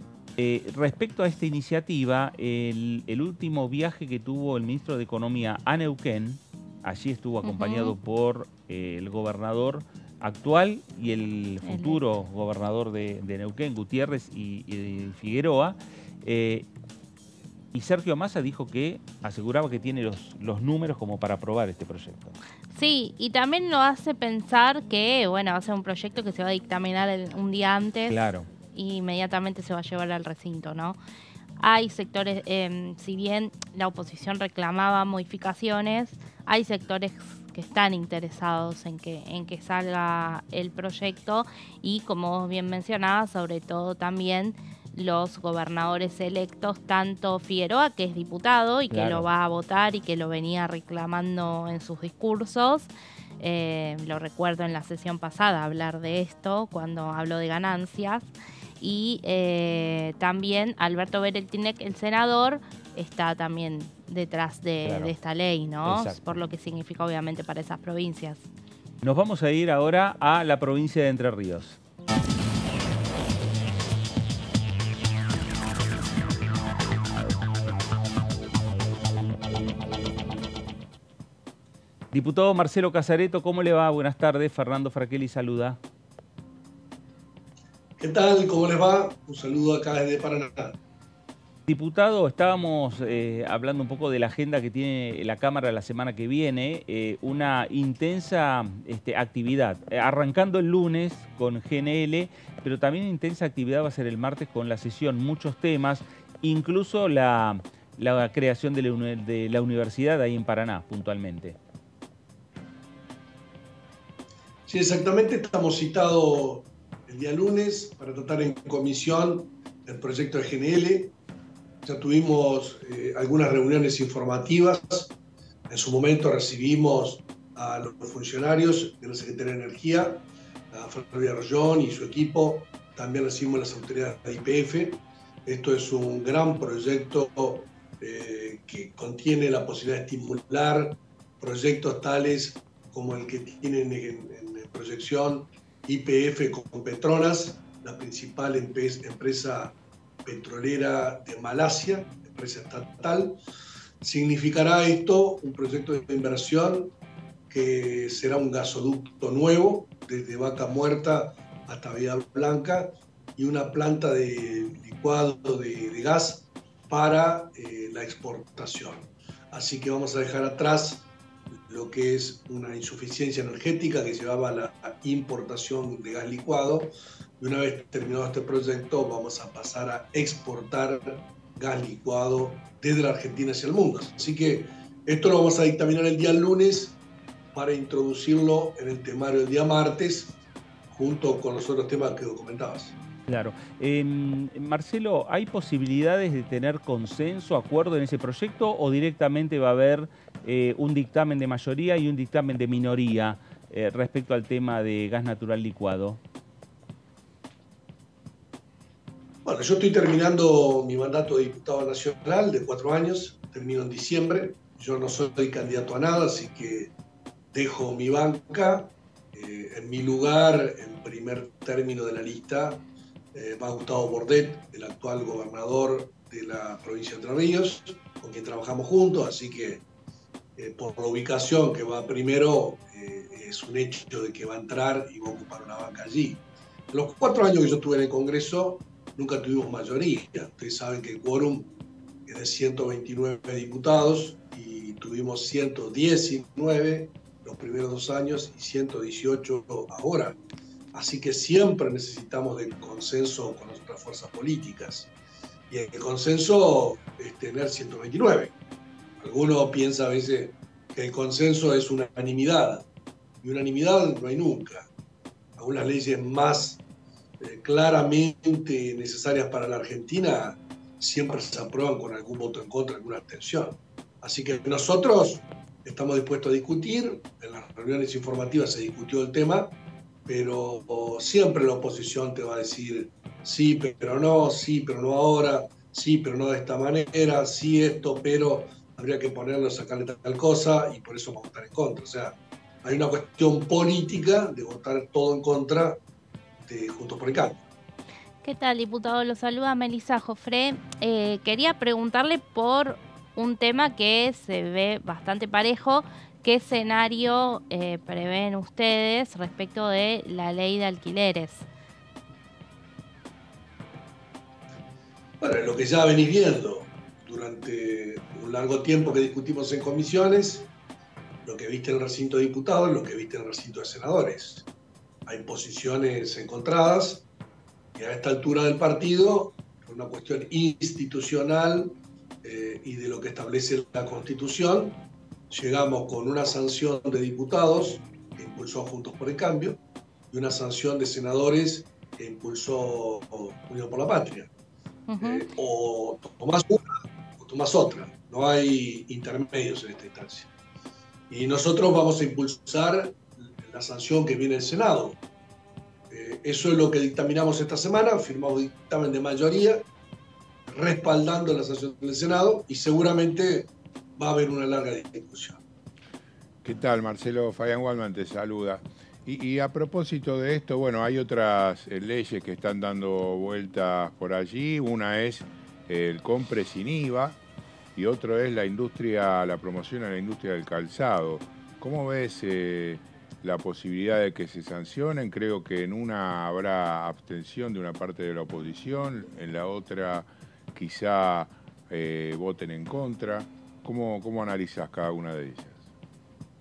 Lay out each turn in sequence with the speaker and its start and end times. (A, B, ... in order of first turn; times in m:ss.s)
0:00.4-0:16.6 A
0:07.4-0:07.9 B
0:11.6-0:12.0 B
0:17.7-0:22.4 A
0:22.7-0:28.2 B
0:28.1-0:28.5 A
0:28.7-0:31.0 B
0:31.6-1:08.5 B
0:48.9-0:49.3 A
1:04.8-1:05.1 A
1:05.8-1:06.4 A
1:09.0-1:11.8 A
1:22.1-1:25.8 A
1:28.0-1:30.8 C
1:31.7-1:51.6 A
1:54.7-2:01.1 C
2:01.8-2:05.1 C
2:05.7-2:33.4 C
2:34.0-2:36.9 C
2:37.5-2:51.1 C
2:51.7-3:07.0 C
3:07.5-3:10.4 C
3:10.9-3:12.9 C
3:13.3-3:26.2 A
3:29.4-3:36.9 C
3:37.5-3:49.8 C
3:50.6-4:01.7 C
4:02.3-4:10.4 C
4:10.9-4:15.1 C
4:15.7-4:18.5 C
4:19.2-4:22.8 C
4:23.4-4:24.9 C
4:25.6-4:26.8 C
4:27.4-4:39.7 C
4:40.3-4:56.0 C
4:56.6-4:57.6 C
4:58.4-5:11.7 B
5:15.4-5:20.7 C
5:21.4-5:24.6 C
5:25.2-5:27.2 C
5:27.9-5:35.0 C
5:35.5-5:39.8 C
5:40.3-5:44.5 C
5:45.1-5:45.5 B
5:45.2-5:50.5 C
5:51.3-5:55.2 C
5:56.1-5:59.8 C
6:00.7-6:05.6 C
6:06.6-6:17.4 D
6:18.0-6:35.8 D